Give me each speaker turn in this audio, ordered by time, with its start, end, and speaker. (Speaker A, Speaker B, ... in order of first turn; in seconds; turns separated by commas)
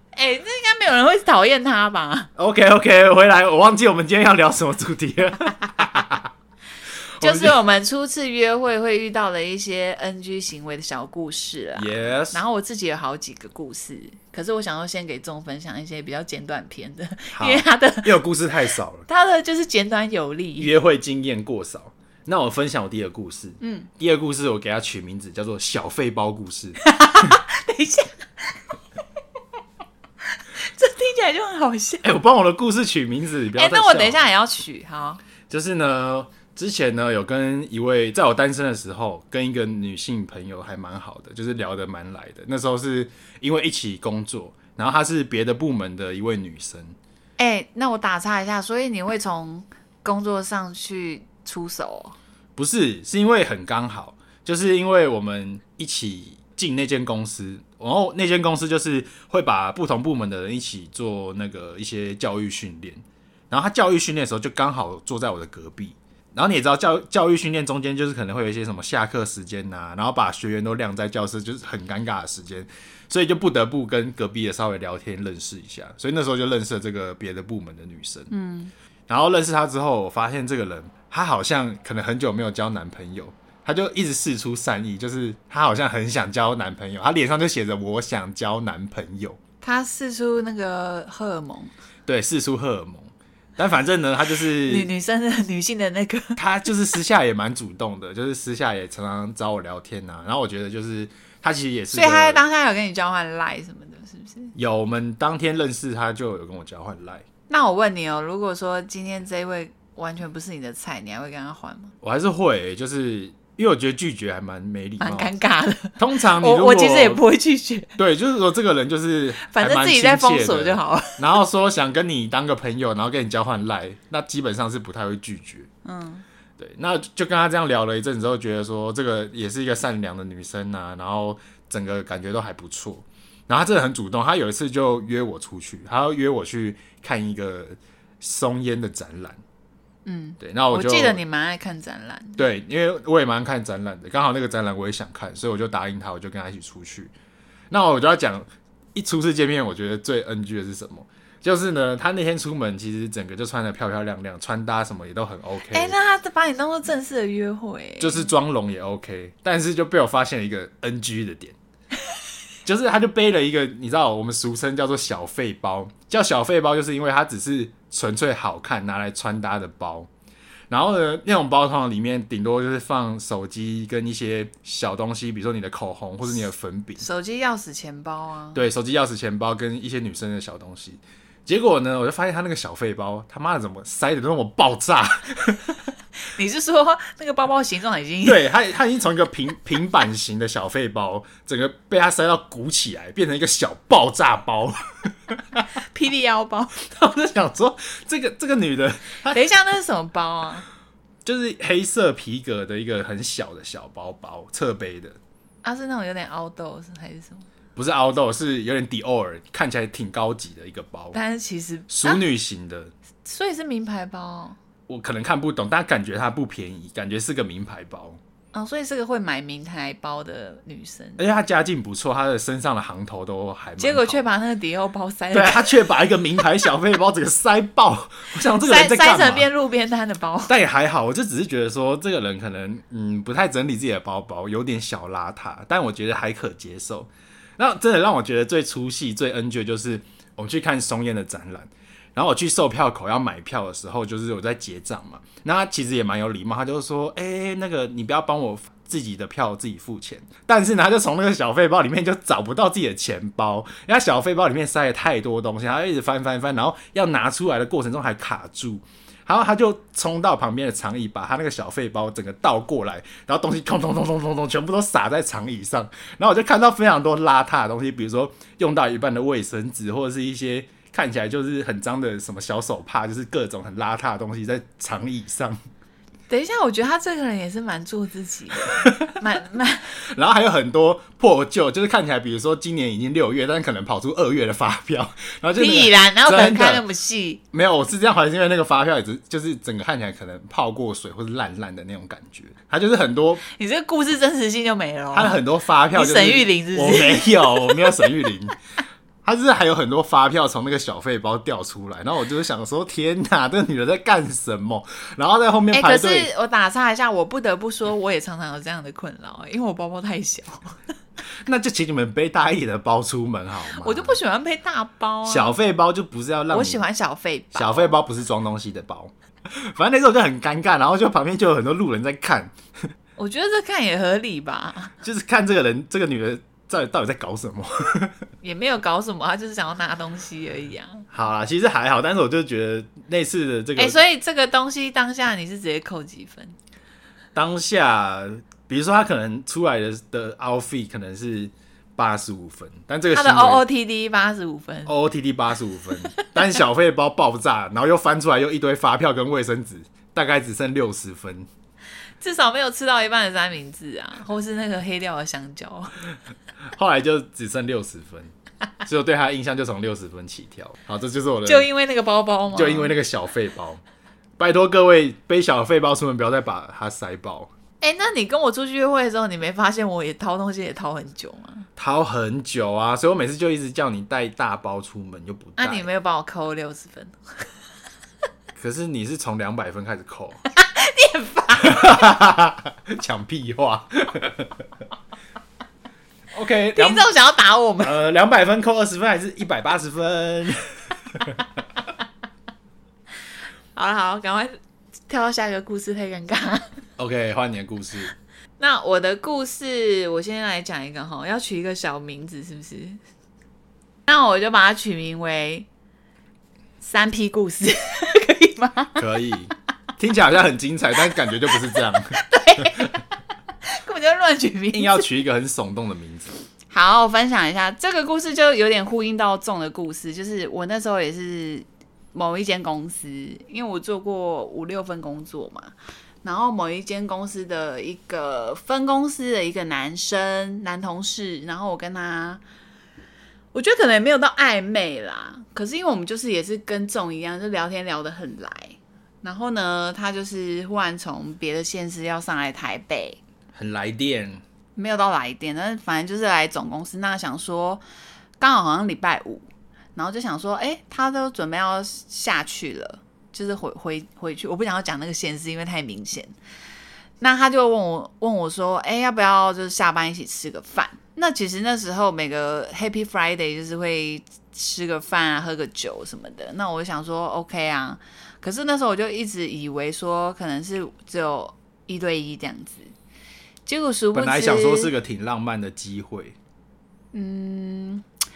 Speaker A: 0.1-2.3, Speaker B: 2.4-6.3, Speaker B: 7.2-7.6, Speaker A: 7.2-18.2, Speaker B: 11.8-12.4, Speaker B: 17.3-19.1, Speaker A: 19.1-20.7, Speaker B: 20.6-26.8, Speaker A: 23.6-23.9, Speaker A: 26.8-28.6, Speaker A: 30.3-32.0, Speaker B: 32.0-34.3, Speaker A: 33.5-35.2, Speaker B: 35.5-47.0, Speaker A: 47.4-52.2, Speaker B: 52.6-78.3, Speaker A: 78.3-78.7, Speaker B: 79.1-89.4, Speaker A: 89.6-91.7, Speaker B: 92.1-94.9, Speaker A: 94.4-96.4, Speaker B: 96.4-102.4, Speaker A: 101.9-104.5, Speaker B: 104.5-107.2, Speaker A: 107.5-111.9, Speaker B: 112.0-115.3, Speaker A: 115.0-118.0, Speaker B: 116.0-117.2, Speaker B: 118.0-125.7, Speaker A: 119.4-121.3, Speaker A: 125.8-126.2, Speaker B: 126.6-139.4, Speaker A: 140.1-142.4, Speaker B: 140.4-141.2, Speaker B: 142.4-147.1, Speaker B: 147.7-155.9, Speaker A: 155.7-158.3, Speaker B: 158.0-161.6, Speaker B: 162.7-170.1, Speaker B: 170.7-177.1, Speaker A: 177.0-178.6, Speaker B: 178.5-185.8, Speaker A: 186.3-188.4, Speaker B: 188.2-195.7, Speaker A: 195.8-196.8, Speaker B: 196.9-199.4, Speaker A: 199.3-200.7, Speaker B: 201.2-205.2, Speaker A: 205.6-207.5, Speaker B: 207.8-211.2, Speaker A: 211.1-212.2, Speaker B: 211.9-212.9, Speaker A: 213.2-214.6, Speaker B: 214.9-218.2, Speaker A: 218.5-221.2, Speaker B: 221.2-224.3, Speaker A: 223.8-225.9, Speaker B: 225.3-229.5, Speaker A: 228.6-230.5, Speaker B: 230.5-275.6, Speaker A: 276.3-279.9, Speaker B: 278.8-279.1, Speaker B: 280.1-286.8, Speaker A: 285.6-287.4, Speaker B: 287.5-293.4, Speaker A: 293.5-295.4, Speaker B: 295.1-298.6, Speaker A: 295.9-298.1, Speaker B: 299.2-306.3, Speaker A: 305.7-310.8, Speaker B: 311.4-314.2, Speaker A: 313.7-315.5, Speaker B: 315.2-316.8, Speaker A: 316.5-317.9, Speaker B: 317.5-322.6, Speaker A: 323.2-324.9, Speaker B: 325.0-328.2, Speaker A: 328.4-331.1, Speaker B: 331.1-334.0, Speaker A: 333.8-336.6, Speaker B: 337.4-343.6, Speaker A: 343.1-344.9, Speaker B: 344.9-351.5, Speaker A: 352.2-355.9, Speaker B: 356.7-358.3, Speaker B: 358.8-361.7, Speaker A: 361.5-362.9, Speaker B: 362.5-363.8, Speaker B: 364.4-367.5, Speaker A: 367.8-371.7, Speaker B: 371.8-375.9, Speaker A: 375.6-377.5, Speaker B: 378.6-380.4, Speaker A: 380.5-382.1, Speaker B: 381.6-384.6, Speaker B: 386.3-387.1, Speaker A: 386.8-387.9, Speaker B: 387.8-391.4, Speaker A: 393.8-394.6, Speaker A: 395.1-396.7, Speaker B: 397.0-398.1, Speaker A: 398.6-403.0, Speaker A: 404.1-405.7, Speaker A: 406.8-409.0, Speaker B: 409.0-412.9, Speaker A: 411.7-413.0, Speaker A: 413.6-415.1, Speaker B: 414.7-416.3, Speaker A: 416.7-432.4, Speaker A: 433.5-443.2, Speaker B: 443.5-444.4, Speaker A: 444.8-447.8, Speaker A: 448.4-456.3, Speaker A: 457.2-472.9, Speaker A: 473.7-474.9, Speaker B: 474.1-476.4, Speaker A: 477.1-478.1